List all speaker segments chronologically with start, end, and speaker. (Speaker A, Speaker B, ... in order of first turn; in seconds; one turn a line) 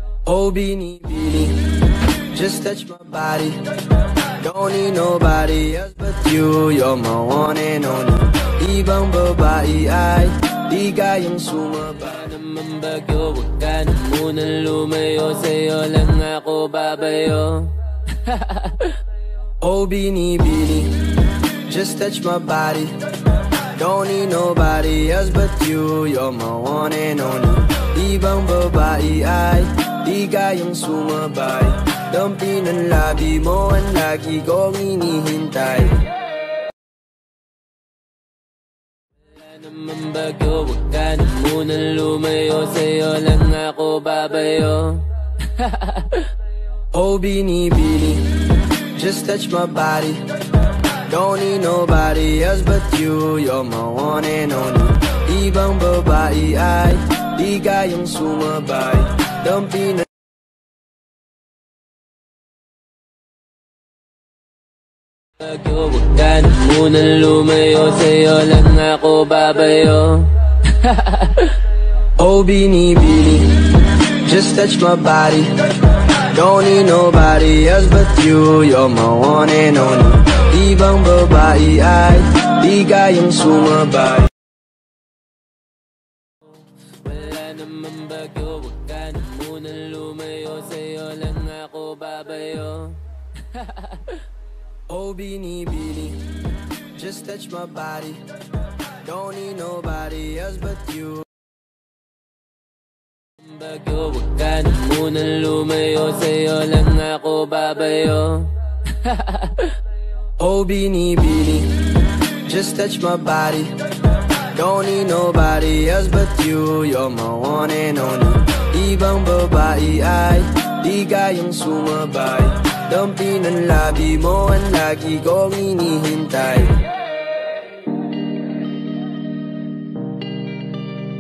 Speaker A: 0.2-12.2
Speaker B: 12.0-19.0
Speaker A: 19.6-21.1
Speaker A: 21.6-23.0
Speaker A: 23.7-36.1
Speaker B: 39.3-46.3
Speaker A: 46.9-50.3
Speaker A: 50.9-60.1
Speaker B: 65.4-71.5
Speaker A: 72.2-84.3
Speaker B: 87.0-93.0
Speaker B: 93.5-94.2
Speaker A: 94.9-96.3
Speaker A: 96.9-98.3
Speaker A: 99.0-101.3
Speaker B: 103.4-109.8
Speaker A: 110.4-111.9
Speaker A: 112.4-113.8
Speaker A: 114.5-126.9